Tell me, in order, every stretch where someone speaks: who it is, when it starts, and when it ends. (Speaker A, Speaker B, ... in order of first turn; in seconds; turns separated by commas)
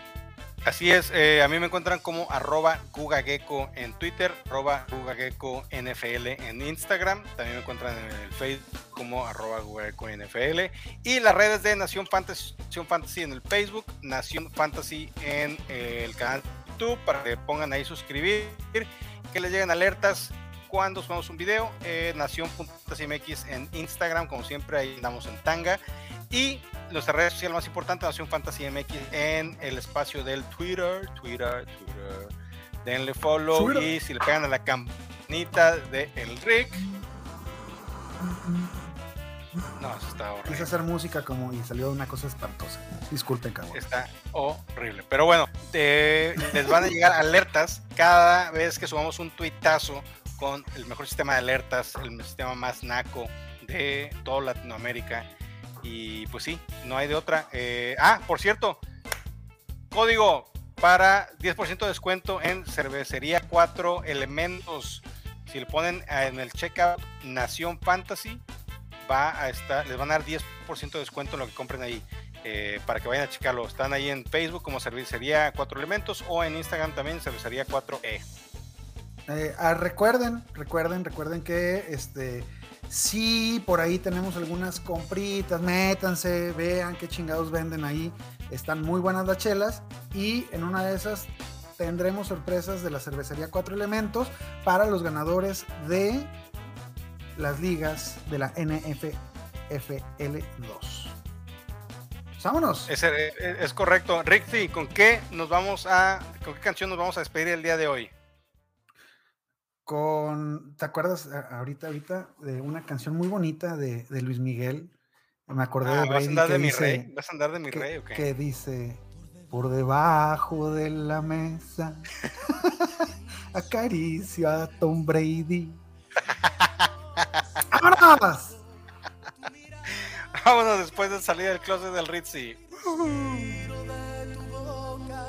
Speaker A: 0.6-32.3, Speaker A: 32.8-36.8, Speaker B: 33.5-33.9, Speaker B: 38.2-38.7, Speaker A: 39.8-40.7, Speaker B: 40.5-43.8, Speaker A: 43.7-55.3, Speaker B: 46.4-46.9, Speaker A: 55.8-58.8, Speaker A: 59.9-68.4, Speaker A: 69.0-78.2, Speaker B: 79.3-96.3, Speaker B: 97.3-101.2, Speaker B: 102.4-102.9, Speaker A: 102.9-108.1, Speaker B: 109.8-114.9, Speaker B: 115.5-117.1, Speaker A: 115.8-118.2, Speaker B: 117.7-125.8, Speaker A: 126.3-127.3, Speaker B: 127.7-128.6, Speaker A: 129.9-133.8